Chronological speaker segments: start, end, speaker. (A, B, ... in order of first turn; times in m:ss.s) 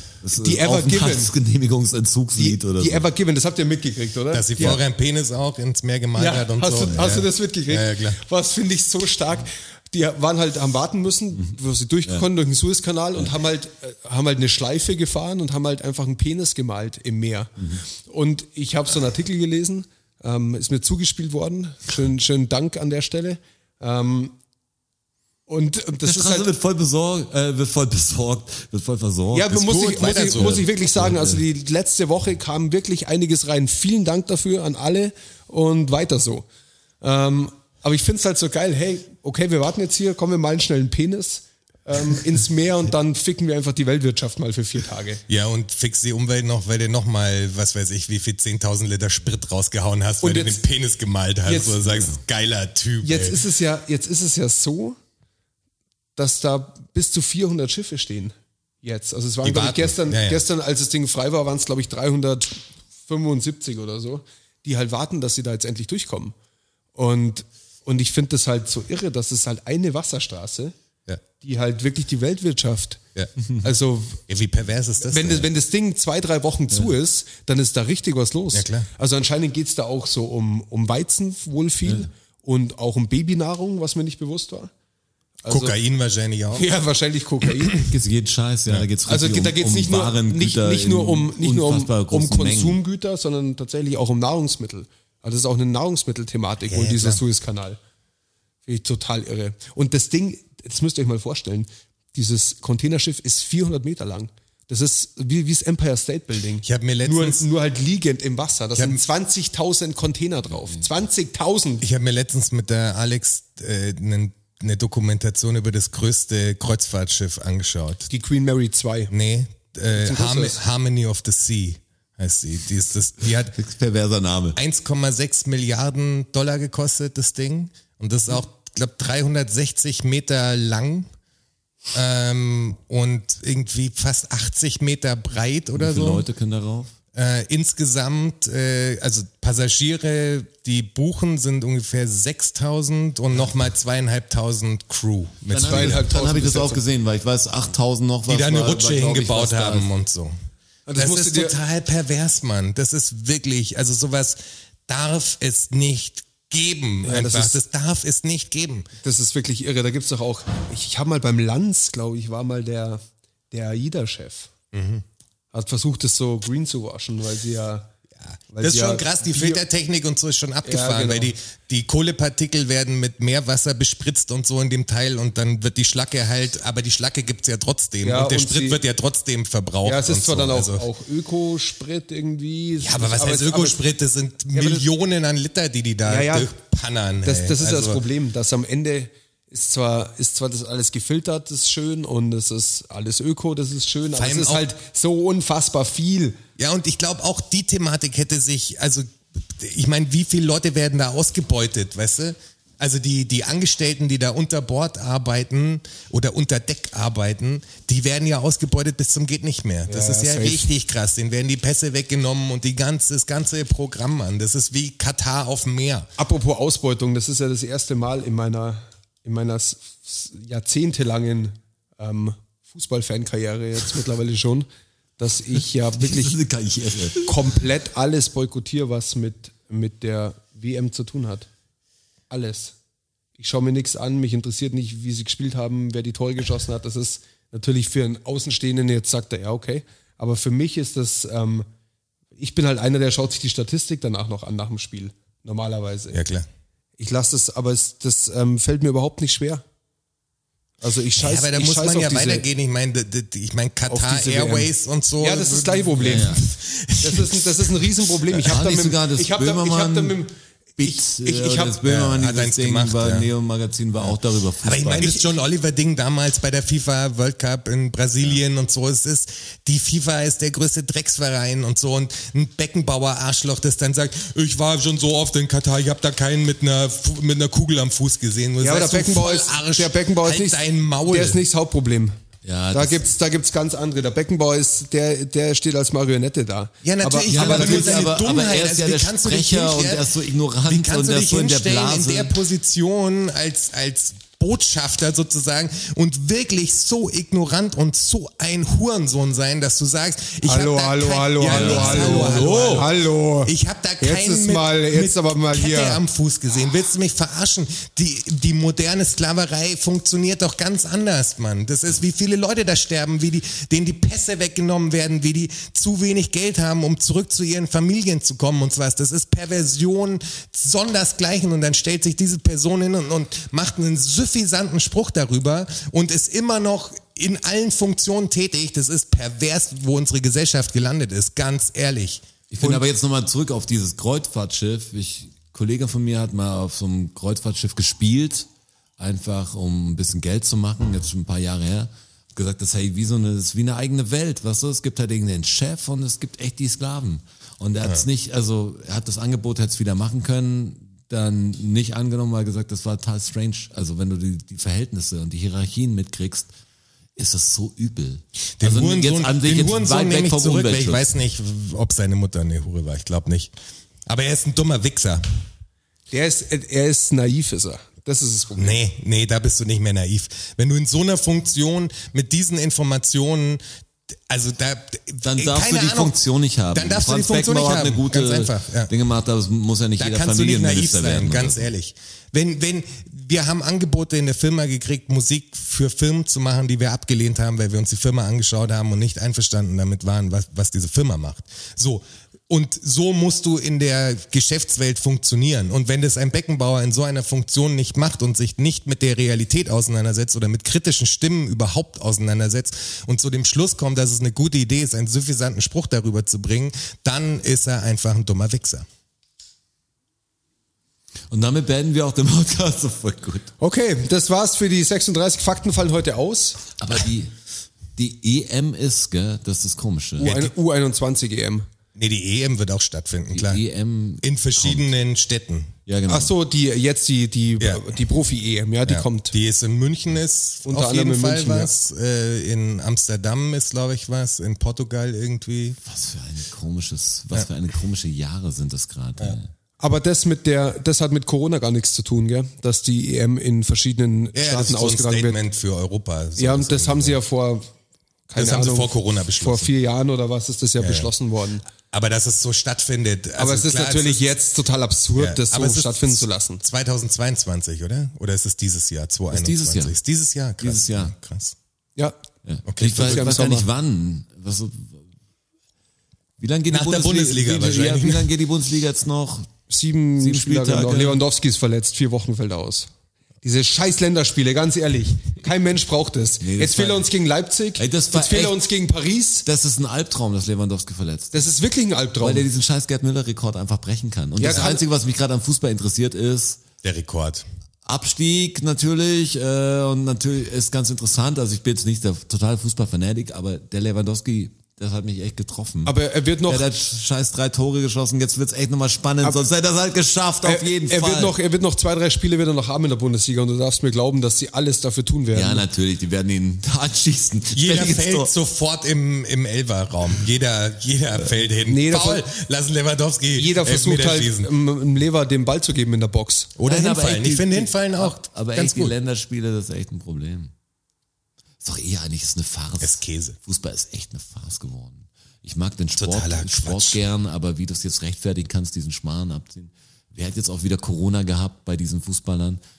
0:00.2-0:03.1 A
0:00.4-0:01.3 B
0:02.4-0:04.8 B
0:04.3-0:08.2 C
0:06.2-0:24.4 B
0:25.5-0:26.5 B
0:26.0-0:31.4 A
0:29.3-0:36.5 B
0:29.6-0:30.6 C
0:37.0-0:45.2 B
0:45.3-0:53.4 C
0:50.2-0:50.6 B
0:51.4-0:52.0 B
0:53.0-0:55.0 B
0:56.2-1:06.4 B
0:59.4-1:00.4 C
1:07.0-1:10.8 B
1:11.4-1:13.0 B
1:13.6-1:14.2 B
1:14.3-1:15.5 C
1:15.0-1:24.7 B
1:18.5-1:18.9 C
1:25.4-1:25.8 B
1:25.5-1:26.7 C
1:26.5-1:27.9 B
1:27.8-1:32.8 A
1:29.1-1:37.8 B
1:36.7-1:37.2 C
1:38.7-1:51.8 B
1:46.6-1:47.5 C
1:48.8-1:49.0 C
1:51.8-1:58.1 C
1:58.1-1:59.1 B
1:59.1-2:03.6 C
1:59.9-2:00.6 B
2:03.6-2:04.6 A
2:04.6-2:11.1 C
2:11.9-2:16.3 C
2:15.8-2:17.0 A
2:17.2-2:26.0 C
2:25.5-2:29.9 A
2:25.6-2:26.8 B
2:28.3-2:30.3 C
2:30.9-2:31.6 B
2:31.0-2:38.9 C
2:37.0-2:37.6 B
2:39.0-2:44.5 B
2:44.7-2:45.0 C
2:45.5-2:47.9 B
2:48.3-3:00.9 C
2:48.5-2:49.6 B
2:50.6-2:51.3 B
2:58.0-2:58.8 B
2:59.8-3:03.8 B
3:02.8-3:08.0 C
3:04.5-3:04.8 B
3:06.0-3:06.5 B
3:07.2-3:16.4 B
3:14.2-3:14.7 C
3:16.6-3:36.1 C
3:29.9-3:30.7 B
3:36.2-3:44.7 B
3:45.2-3:46.4 B
3:46.0-3:47.6 A
3:47.2-3:51.5 B
3:52.3-3:52.8 B
3:53.4-4:01.7 B
4:02.4-4:06.2 B
4:06.1-4:06.5 C
4:07.0-4:09.6 B
4:10.8-4:12.4 B
4:11.2-4:17.9 C
4:13.9-4:16.4 B
4:16.0-4:16.4 A
4:17.0-4:21.8 B
4:18.4-4:20.2 A
4:20.8-4:25.2 A
4:21.8-4:23.3 C
4:24.6-4:41.4 C
4:38.6-4:42.1 B
4:42.4-4:43.1 A
4:42.7-4:48.0 B
4:46.8-4:50.1 C
4:47.3-4:52.3 A
4:50.7-5:32.8 C
5:00.4-5:06.0 B
5:01.4-5:02.9 A
5:32.5-5:56.5 A
5:57.2-6:01.1 A
5:58.6-6:03.5 C
6:04.1-6:05.2 C
6:06.1-6:08.8 B
6:08.6-6:13.6 C
6:14.3-6:16.2 C
6:15.2-6:21.7 A
6:16.7-6:18.9 C
6:20.0-6:48.9 C
6:51.3-6:53.5 A
6:53.6-6:56.6 B
6:56.8-6:57.3 A
6:58.0-7:00.5 A
7:00.2-7:01.7 B
7:02.0-7:03.6 C
7:03.3-7:04.9 A
7:04.2-7:05.7 C
7:05.9-7:06.3 A
7:06.1-7:09.4 B
7:07.6-7:07.9 C
7:08.9-7:15.8 C
7:10.6-7:11.7 B
7:15.8-7:19.5 A
7:19.8-7:25.4 B
7:24.4-7:27.2 C
7:26.4-7:27.7 B
7:28.3-7:31.6 B
7:28.4-7:29.7 C
7:30.8-7:31.1 C
7:31.9-7:34.2 C
7:33.4-7:36.6 B
7:35.2-7:41.6 C
7:39.3-7:40.0 A
7:40.6-7:41.1 A
7:42.4-7:45.1 A
7:42.7-7:43.4 C
7:42.8-7:43.7 B
7:46.4-7:49.5 A
7:46.7-7:48.3 C
7:49.7-7:52.9 B
7:50.2-7:51.2 A
7:53.4-7:59.5 B
7:56.4-7:57.1 A
7:57.8-7:58.6 A
7:59.4-8:01.5 A
8:01.3-8:02.5 B
8:02.2-8:06.6 A
8:04.4-8:04.8 B
8:06.8-8:07.5 C
8:07.8-8:16.0 A
8:15.8-8:16.7 B
8:16.5-8:21.4 A
8:20.4-8:25.7 B
8:25.3-8:28.3 A
8:27.6-8:34.5 C
8:31.6-8:32.2 B
8:33.4-8:36.5 B
8:36.6-8:38.9 C
8:36.6-8:40.5 A
8:41.6-8:52.6 A
8:42.8-8:43.4 C
8:46.0-8:47.0 C